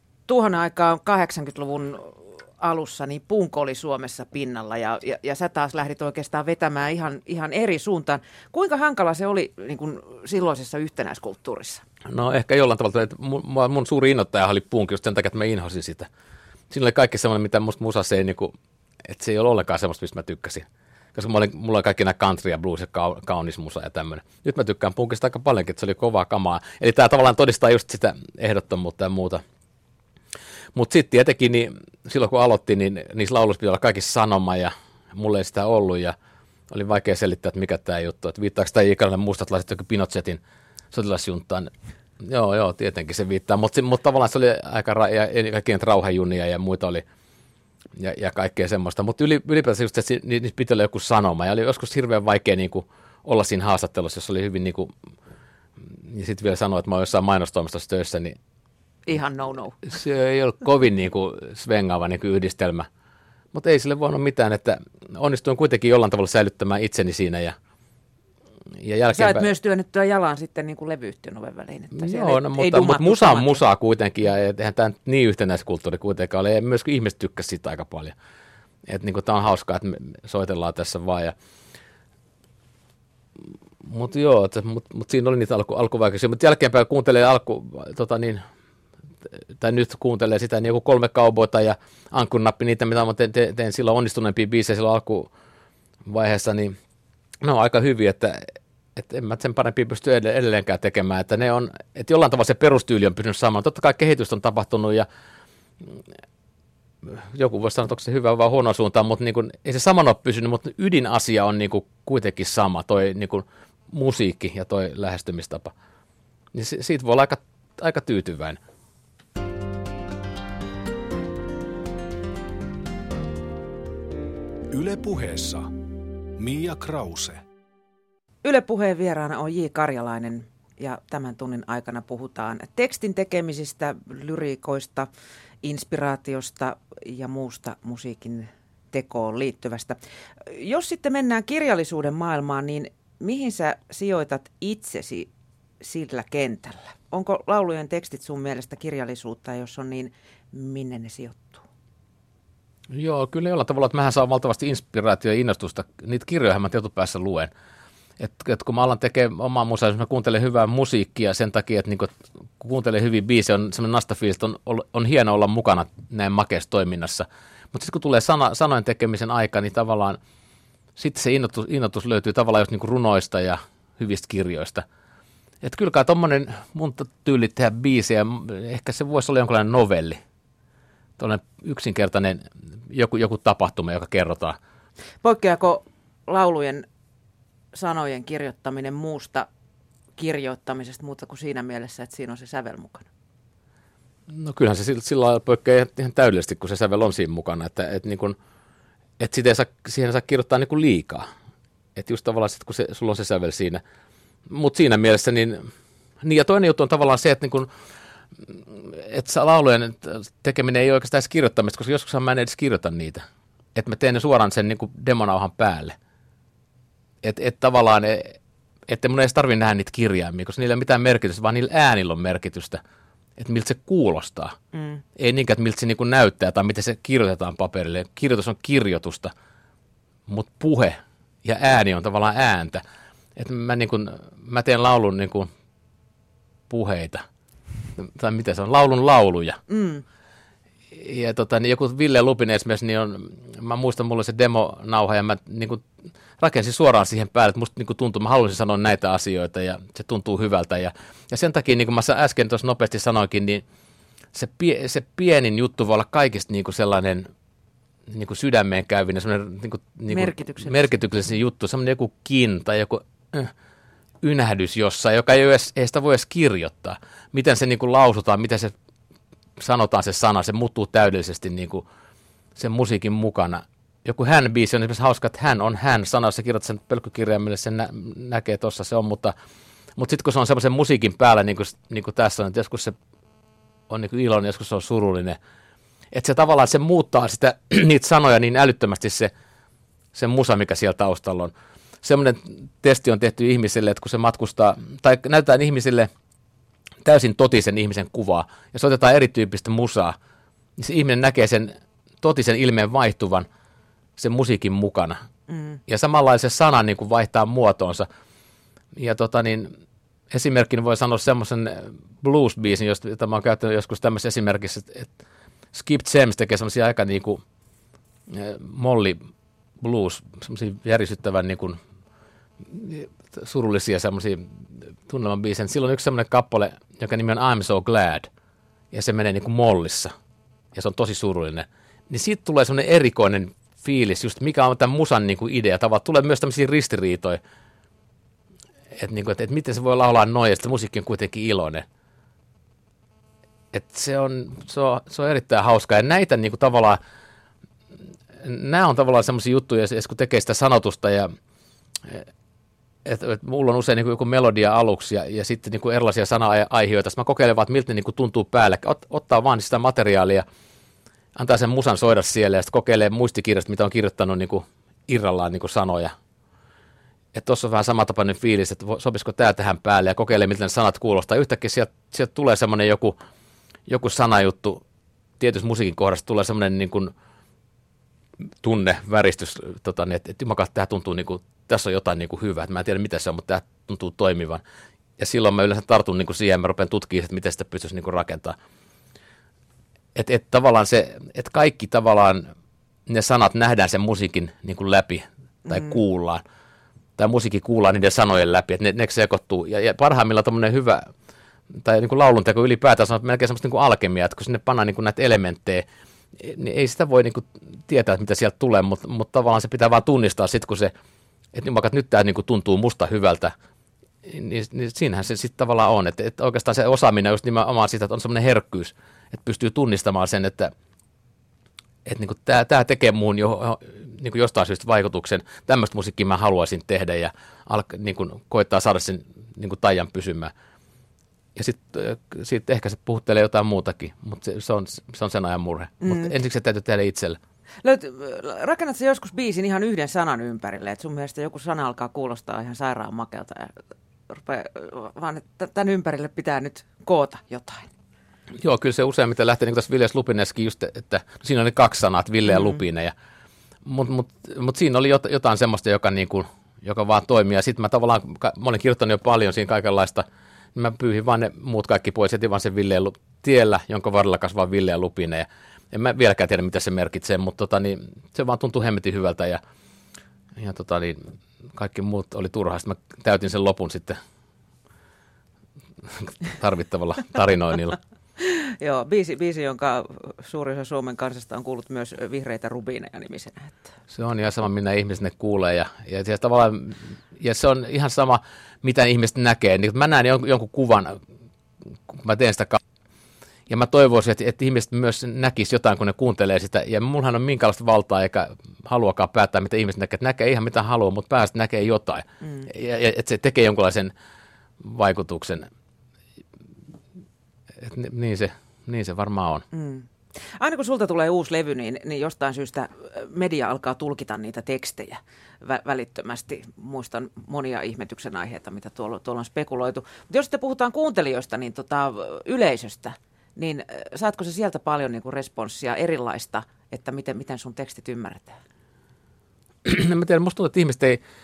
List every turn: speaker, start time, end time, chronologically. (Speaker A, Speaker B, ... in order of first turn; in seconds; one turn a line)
Speaker A: 0.3-11.8
Speaker B: 12.1-16.1
Speaker B: 16.7-18.5
Speaker B: 19.1-29.4
Speaker B: 30.7-36.1
Speaker B: 36.7-40.4
Speaker B: 40.9-47.0
Speaker B: 48.0-54.9
Speaker B: 55.9-58.4
Speaker A: 59.1-59.8
Speaker B: 59.8-62.9
Speaker B: 63.5-67.6
Speaker B: 68.8-69.5
Speaker A: 69.1-73.6
Speaker B: 71.9-78.2
Speaker B: 78.9-81.3
Speaker B: 83.8-88.4
Speaker B: 89.6-95.3
Speaker B: 96.0-96.8
Speaker B: 97.4-105.1
Speaker B: 107.0-115.7
Speaker B: 116.5-118.6
Speaker C: 124.7-125.7
Speaker C: 126.4-127.4
Speaker A: 128.4-135.1
Speaker A: 135.6-145.3
Speaker A: 145.8-151.7
Speaker B: 152.9-157.5
Speaker B: 158.2-170.2
Speaker B: 171.0-174.8
Speaker B: 175.6-180.2
Speaker B: 181.2-184.6
Speaker A: 185.2-186.9
Speaker A: 187.7-189.5
Speaker A: 190.2-193.1
Speaker B: 194.3-198.4
Speaker B: 199.2-201.3
Speaker B: 202.0-203.8
Speaker B: 204.5-207.7
Speaker B: 208.5-216.0
Speaker B: 217.2-218.4
Speaker B: 218.9-222.8
Speaker B: 223.4-224.6
Speaker A: 224.7-225.0
Speaker B: 225.2-229.3
Speaker B: 230.3-232.8
Speaker B: 233.4-235.5
Speaker B: 236.7-237.2
Speaker B: 238.0-239.6
Speaker A: 239.7-240.0
Speaker B: 240.9-245.9
Speaker B: 246.4-253.6
Speaker B: 254.3-257.3
Speaker B: 258.1-263.5
Speaker A: 260.1-260.8
Speaker B: 264.2-268.7
Speaker B: 269.6-271.9
Speaker B: 272.6-279.3
Speaker B: 280.0-283.0
Speaker B: 283.9-285.4
Speaker B: 286.1-289.3
Speaker B: 290.1-296.1
Speaker B: 297.0-300.2
Speaker B: 300.8-303.5
Speaker B: 304.2-305.2
Speaker A: 305.5-305.8
Speaker B: 305.9-308.1
Speaker B: 308.9-309.7
Speaker B: 310.3-315.1
Speaker B: 315.7-317.4
Speaker B: 318.3-319.2
Speaker B: 319.8-321.8
Speaker B: 322.6-324.5
Speaker B: 325.1-328.3
Speaker B: 328.9-330.1
Speaker B: 330.7-337.4
Speaker B: 338.9-341.9
Speaker B: 343.7-347.0
Speaker B: 348.4-351.3
Speaker B: 353.1-360.4
Speaker B: 361.4-366.2
Speaker B: 367.3-373.2
Speaker B: 373.9-374.8
Speaker B: 375.4-377.1
Speaker B: 378.6-384.6
Speaker B: 385.2-388.6
Speaker B: 390.1-392.5
Speaker B: 393.1-396.4
Speaker A: 395.7-395.9
Speaker B: 397.2-401.1
Speaker B: 401.7-410.9
Speaker B: 411.5-413.5
Speaker B: 414.2-420.7
Speaker B: 422.1-430.5
Speaker B: 431.6-437.4
Speaker A: 436.0-436.3
Speaker A: 437.8-443.7
Speaker A: 444.3-447.9
Speaker B: 448.6-453.1
Speaker A: 452.5-452.8
Speaker B: 453.8-469.6
Speaker B: 470.6-471.2
Speaker B: 471.7-474.2
Speaker B: 476.1-478.0
Speaker A: 478.4-483.8
Speaker B: 484.1-491.2
Speaker B: 492.1-492.8
Speaker B: 493.7-504.1
Speaker A: 502.4-502.7
Speaker B: 504.8-505.7
Speaker B: 507.8-509.6
Speaker A: 509.7-528.6
Speaker B: 529.8-531.2